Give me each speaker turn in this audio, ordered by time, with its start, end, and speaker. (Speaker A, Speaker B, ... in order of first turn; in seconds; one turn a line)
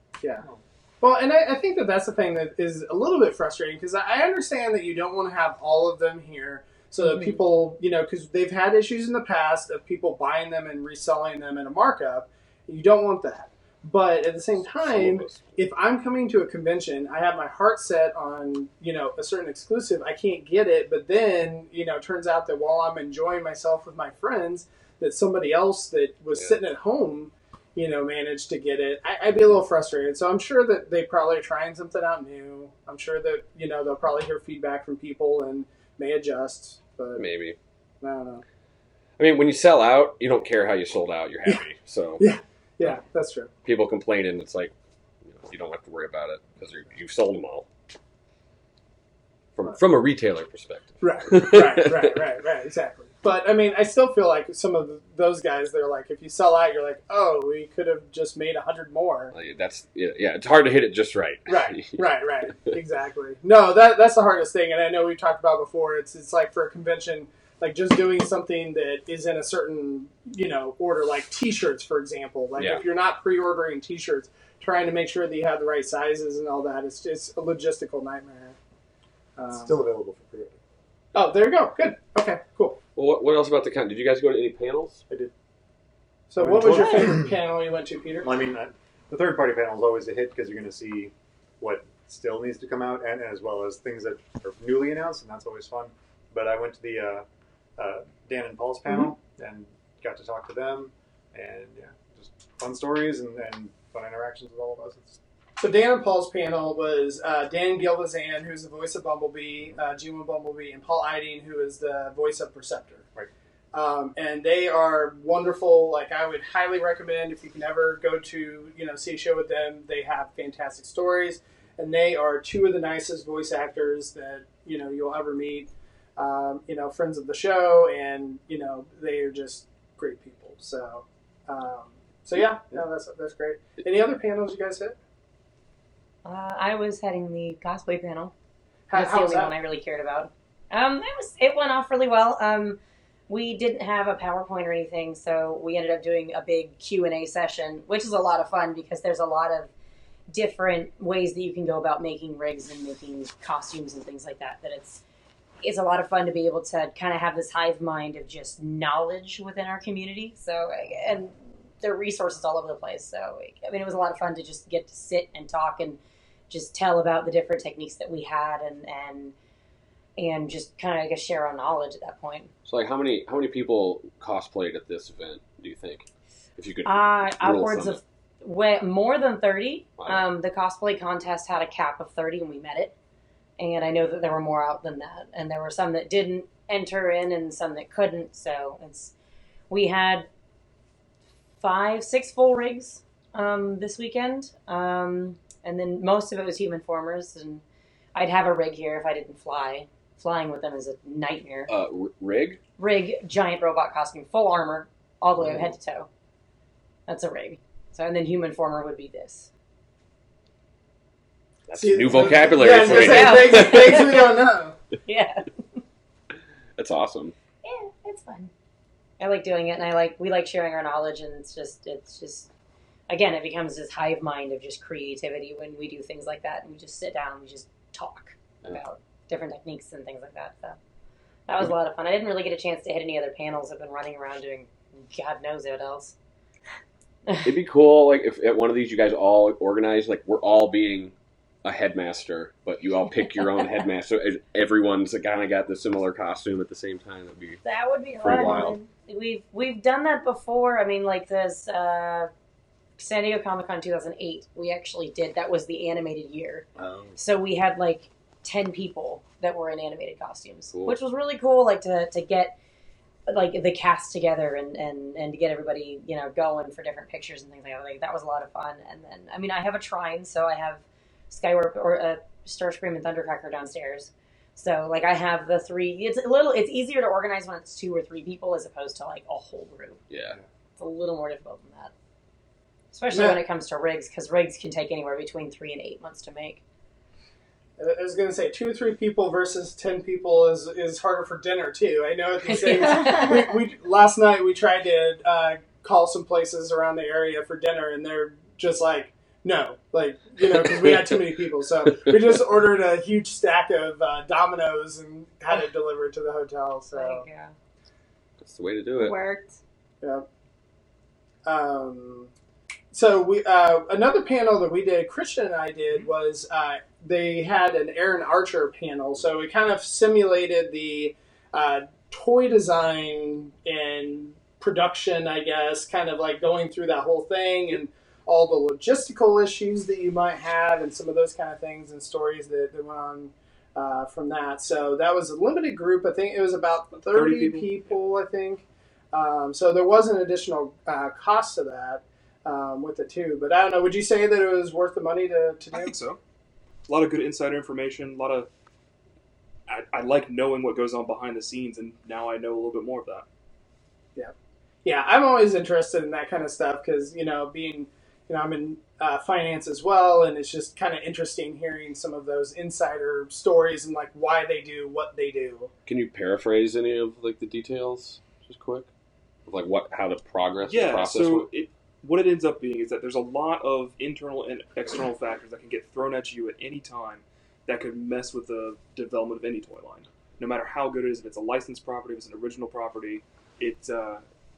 Speaker A: 0.2-0.5
Speaker A: 1.0-37.3
Speaker B: 14.6-15.6
Speaker B: 37.2-37.6
Speaker A: 38.0-38.4
Speaker B: 39.2-42.2
Speaker A: 42.2-43.5
Speaker B: 43.6-44.7
Speaker B: 45.2-47.7
Speaker B: 49.6-52.2
Speaker A: 51.0-59.3
Speaker B: 59.3-62.0
Speaker A: 61.5-78.6
Speaker B: 72.6-72.8
Speaker A: 79.4-79.7
Speaker C: 79.5-80.6
Speaker A: 81.1-82.8
Speaker B: 83.0-85.0
Speaker A: 86.3-88.3
Speaker C: 86.4-87.4
Speaker C: 88.2-97.3
Speaker C: 97.8-105.2
Speaker A: 105.6-113.1
Speaker A: 113.7-135.0
Speaker D: 136.2-138.3
Speaker A: 138.9-139.6
Speaker D: 138.9-149.7
Speaker D: 150.3-155.0
Speaker D: 155.6-166.0
Speaker D: 166.5-169.3
Speaker D: 170.2-172.5
Speaker B: 172.7-176.1
Speaker B: 176.6-178.0
Speaker D: 176.8-182.9
Speaker B: 180.0-180.2
Speaker D: 183.6-189.1
Speaker D: 189.7-190.3
Speaker D: 191.6-197.6
Speaker D: 198.1-201.7
Speaker B: 201.7-202.6
Speaker D: 202.8-206.1
Speaker D: 207.1-209.5
Speaker B: 211.7-214.3
Speaker A: 211.7-214.8
Speaker D: 212.9-214.3
Speaker D: 215.1-215.5
Speaker B: 216.8-217.3
Speaker D: 217.6-218.5
Speaker D: 219.2-222.5
Speaker D: 223.1-230.8
Speaker D: 231.5-236.1
Speaker B: 237.4-247.6
Speaker D: 247.6-252.3
Speaker B: 248.2-248.8
Speaker E: 248.2-248.9
Speaker D: 253.0-262.6
Speaker B: 256.8-257.2
Speaker B: 260.7-261.0
Speaker D: 263.3-280.0
Speaker B: 280.1-280.4
Speaker D: 280.8-281.9
Speaker D: 282.9-286.6
Speaker A: 283.1-283.4
Speaker A: 287.8-307.2
Speaker D: 292.5-293.4
Speaker E: 292.8-293.5
Speaker D: 306.9-307.5
Speaker B: 308.4-309.1
Speaker E: 309.0-309.6
Speaker A: 310.0-310.3
Speaker A: 311.4-312.3
Speaker A: 312.9-346.0
Speaker F: 337.1-337.9
Speaker F: 345.7-346.2
Speaker F: 346.9-348.5
Speaker F: 349.7-353.3
Speaker A: 354.1-365.7
Speaker B: 365.9-368.9
Speaker B: 369.5-371.5
Speaker F: 370.6-384.2